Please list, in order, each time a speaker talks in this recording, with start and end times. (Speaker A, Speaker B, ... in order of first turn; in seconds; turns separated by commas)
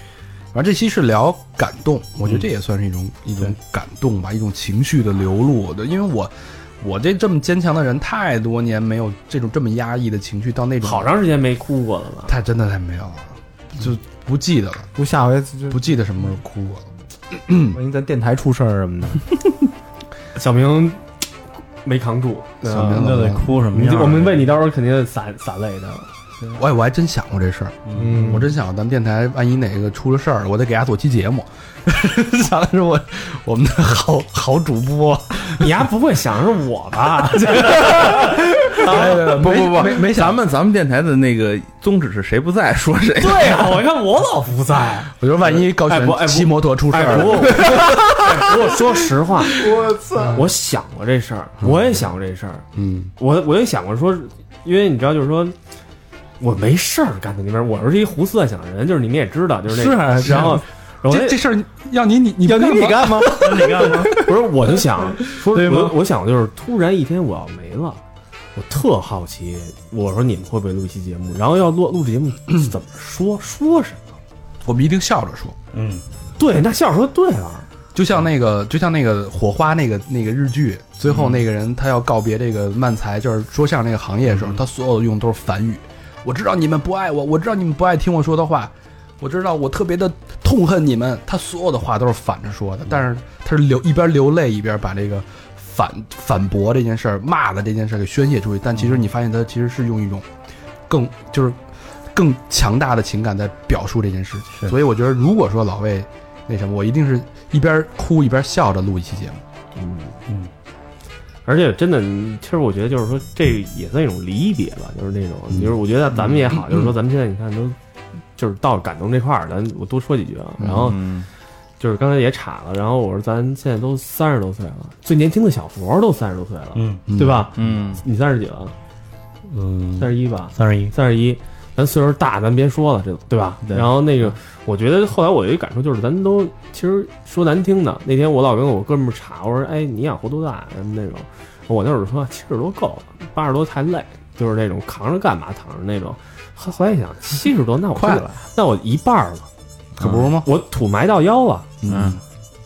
Speaker A: 0.5-11.1, Speaker B: 10.8-12.3, Speaker A: 12.3-14.9, Speaker C: 14.9-15.9, Speaker A: 15.7-16.9, Speaker A: 17.4-17.8, Speaker C: 17.7-19.2, Speaker B: 20.4-21.1, Speaker B: 21.8-23.0, Speaker A: 22.6-23.4, Speaker D: 22.9-24.5, Speaker B: 23.7-26.1, Speaker A: 26.5-35.7, Speaker D: 27.9-28.3, Speaker C: 27.9-28.5, Speaker B: 35.6-39.4, Speaker A: 38.1-40.4, Speaker E: 38.8-43.8, Speaker B: 43.2-49.7, Speaker A: 45.2-47.7, Speaker E: 47.5-48.1, Speaker C: 49.5-50.4, Speaker A: 50.1-50.4, Speaker B: 50.3-52.6, Speaker A: 52.7-53.1, Speaker B: 53.2-55.6, Speaker B: 56.4-61.4, Speaker C: 59.7-60.6, Speaker A: 60.1-64.1, Speaker C: 62.4-64.1, Speaker D: 63.4-64.2, Speaker B: 64.2-68.0, Speaker D: 65.5-66.0, Speaker B: 68.6-74.0, Speaker A: 74.6-75.6, Speaker D: 75.7-76.0, Speaker B: 76.4-77.7, Speaker A: 77.9-100.3, Speaker A: 100.9-101.6, Speaker A: 102.1-109.4, Speaker B: 109.7-110.2, Speaker B: 111.5-117.8, Speaker B: 118.4-121.0, Speaker A: 120.6-120.9, Speaker E: 120.7-121.3, Speaker B: 121.8-128.7, Speaker D: 126.7-127.0, Speaker A: 127.1-127.5, Speaker E: 127.6-128.0, Speaker D: 129.5-130.9, Speaker B: 130.0-149.5, Speaker A: 150.0-150.5, Speaker B: 150.4-151.7, Speaker A: 151.8-152.2, Speaker E: 151.9-152.2